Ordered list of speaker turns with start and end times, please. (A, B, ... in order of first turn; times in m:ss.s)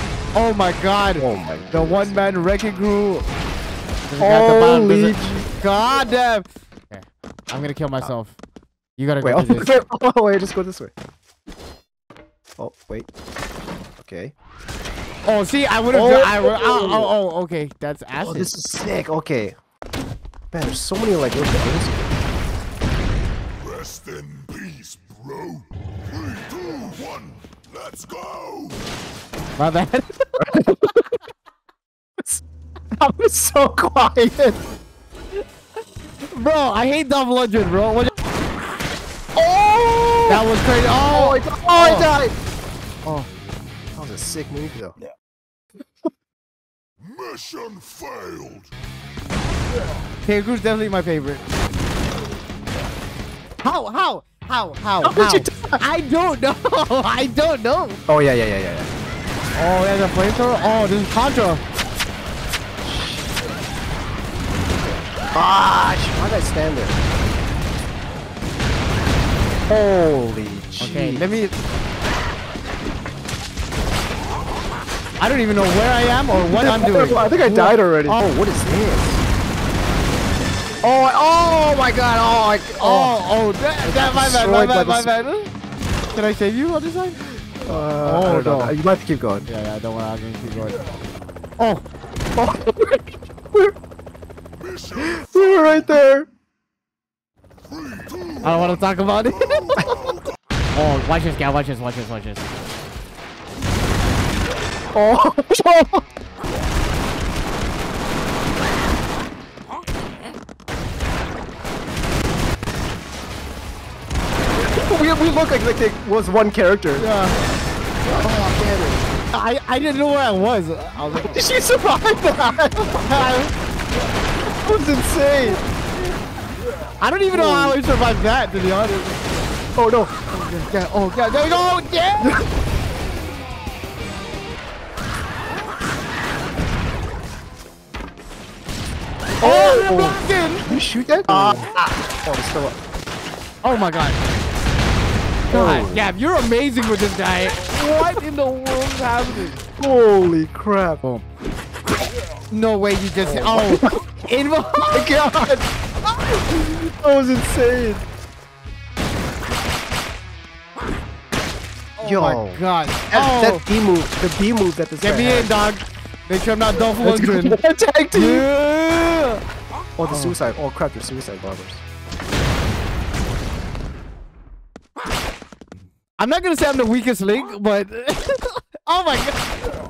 0:00.4-0:03.3 A
0:01.2-0:02.2 B
0:04.1-0:08.4 A
0:04.2-0:05.5 B
0:09.0-0:09.7 A
0:09.2-0:10.9 B
0:12.6-0:13.1 B
0:14.0-0:14.3 B
0:15.3-0:18.5 A
0:15.9-0:17.1 B
0:18.2-0:19.6 B
0:20.5-0:22.2 B
0:23.6-0:28.8 C
0:29.6-0:31.1 A
0:33.0-0:34.6 B
0:36.3-0:38.1 A
0:39.4-0:40.4 B
0:40.3-0:42.1 A
0:41.1-0:42.4 B
0:44.0-0:45.0 B
0:47.0-0:48.7 C
0:50.3-0:51.4 A
0:53.6-0:58.0 A
0:55.0-0:55.8 B
0:58.1-0:58.9 B
0:59.6-1:01.6 A
1:02.8-1:03.2 B
1:05.3-1:07.0 B
1:09.7-1:11.4 B
1:10.8-1:11.5 A
1:15.2-1:18.3 A
1:16.3-1:19.2 B
1:20.8-1:23.3 B
1:22.8-1:25.5 A
1:23.8-1:25.1 B
1:26.1-1:28.7 A
1:27.6-1:29.5 B
1:29.5-1:30.8 A
1:31.6-1:31.8 A
1:32.4-1:33.0 B
1:34.6-1:35.2 C
1:34.9-1:36.3 B
1:37.7-1:38.4 C
1:38.4-1:39.8 A
1:40.8-1:42.5 A
1:44.9-1:46.0 B
1:54.6-1:57.1 B
1:57.0-1:57.4 A
1:58.1-1:59.0 B
1:58.3-1:58.5 A
1:59.3-2:01.4 A
2:01.1-2:03.0 B
2:03.0-2:03.5 A
2:04.6-2:05.6 B
2:07.0-2:09.2 A
2:07.3-2:07.8 B
2:09.8-2:10.1 B
2:10.3-2:12.4 A
2:19.4-2:20.7 A
2:19.4-2:22.8 B
2:21.3-2:21.7 A
2:23.6-2:24.2 A
2:25.5-2:26.1 B
2:25.5-2:29.6 A
2:29.8-2:31.0 B
2:32.5-2:35.2 A
2:33.2-2:34.0 B
2:34.9-2:38.0 B
2:42.0-2:43.6 A
2:42.0-2:45.5 B
2:45.0-2:47.6 A
2:47.0-2:48.5 B
2:48.1-2:49.4 A
2:50.0-2:51.8 B
2:50.1-2:50.4 A
2:56.2-2:59.4 A